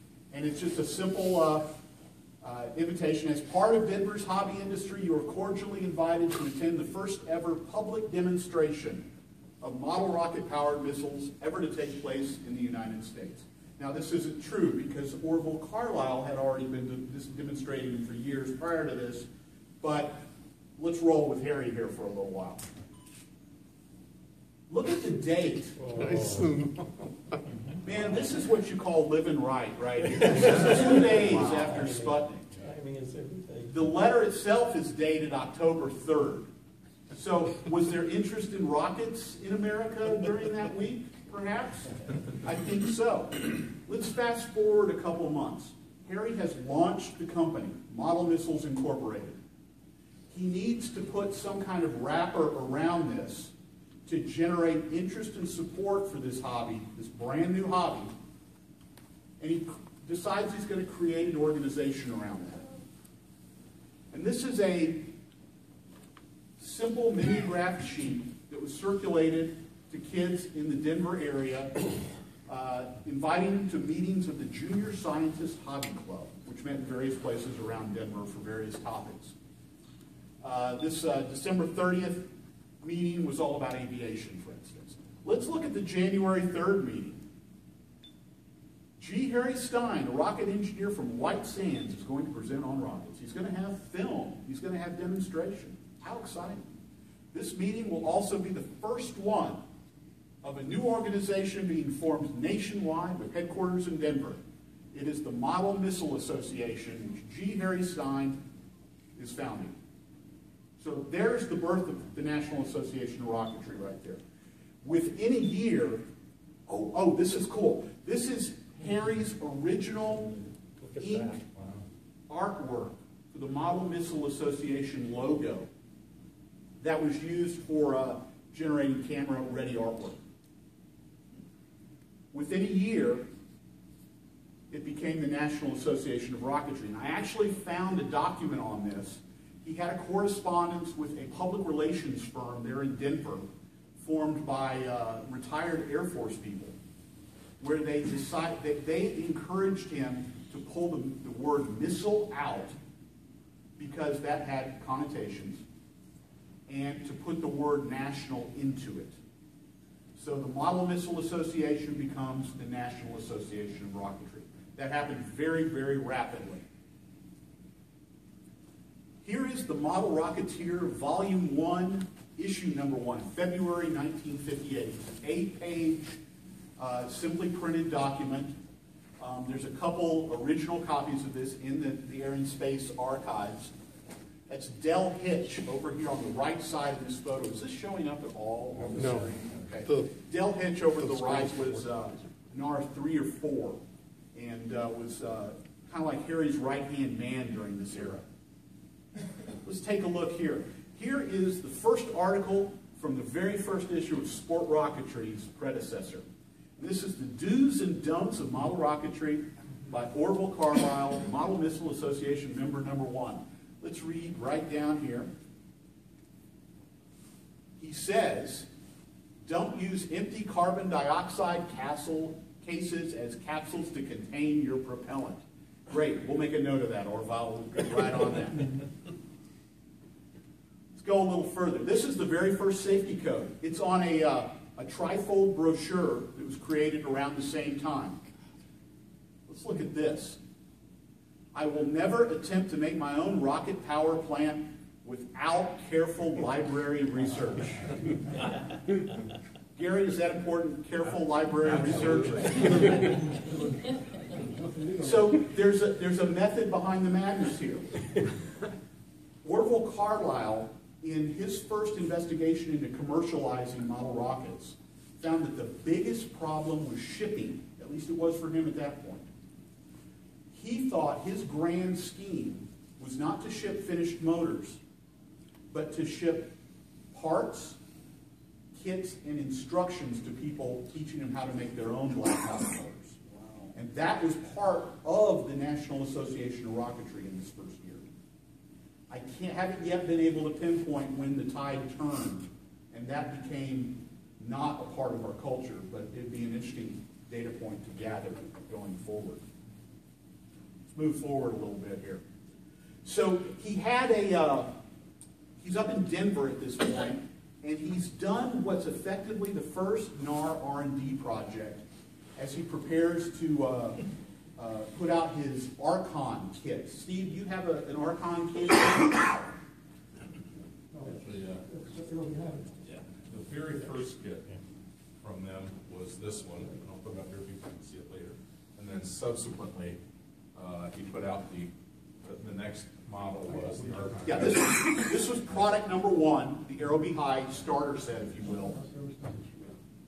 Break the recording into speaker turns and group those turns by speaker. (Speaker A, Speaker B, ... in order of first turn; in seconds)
Speaker A: 0.3-1.8, 2.4-9.1, 9.6-19.3, 19.8-20.2, 20.8-22.7, 24.7-26.4, 27.8-32.5, 33.7-36.5, 37.1-49.4, 50.3-53.5, 54.0-58.1, 59.4-62.6, 64.1-65.1, 66.6-71.7, 72.5-79.3, 80.4-82.3, 82.8-87.2, 89.0-96.6, 97.3-99.6, 100.4-104.4, 104.9-108.4, 109.2-109.7, 110.8-114.2, 114.8-116.0, 116.7-120.4, 121.0-121.4, 122.3-125.7, 126.8-130.2, 132.3-133.2, 134.7-143.5, 144.0-146.7, 147.6-152.8, 153.8-155.6, 156.7-159.2, 160.1-166.6, 169.2-176.2, 176.8-178.5, 179.2-183.7, 184.5-193.8, 194.3-198.2, 199.6-206.2, 206.8-215.3, 217.8-218.7, 219.4-228.8, 230.9-238.2, 239.5-240.4, 241.5-247.9, 249.7-253.0, 255.0-258.0, 259.4-269.2, 270.5-274.8, 275.7-276.5, 277.1-277.8, 278.7-283.1, 283.7-288.1, 289.1-299.4, 300.9-302.2, 303.0-304.7, 305.6-311.8, 312.4-314.0, 314.6-319.5, 334.2-338.8
Speaker B: 25.8-26.5, 30.1-33.8, 120.8-121.4
Speaker C: 121.5-121.8, 321.0-321.6, 322.8-324.5, 325.2-330.0, 330.5-331.7, 332.2-334.6
Speaker D: 253.4-255.2, 320.9-322.7, 338.4-339.8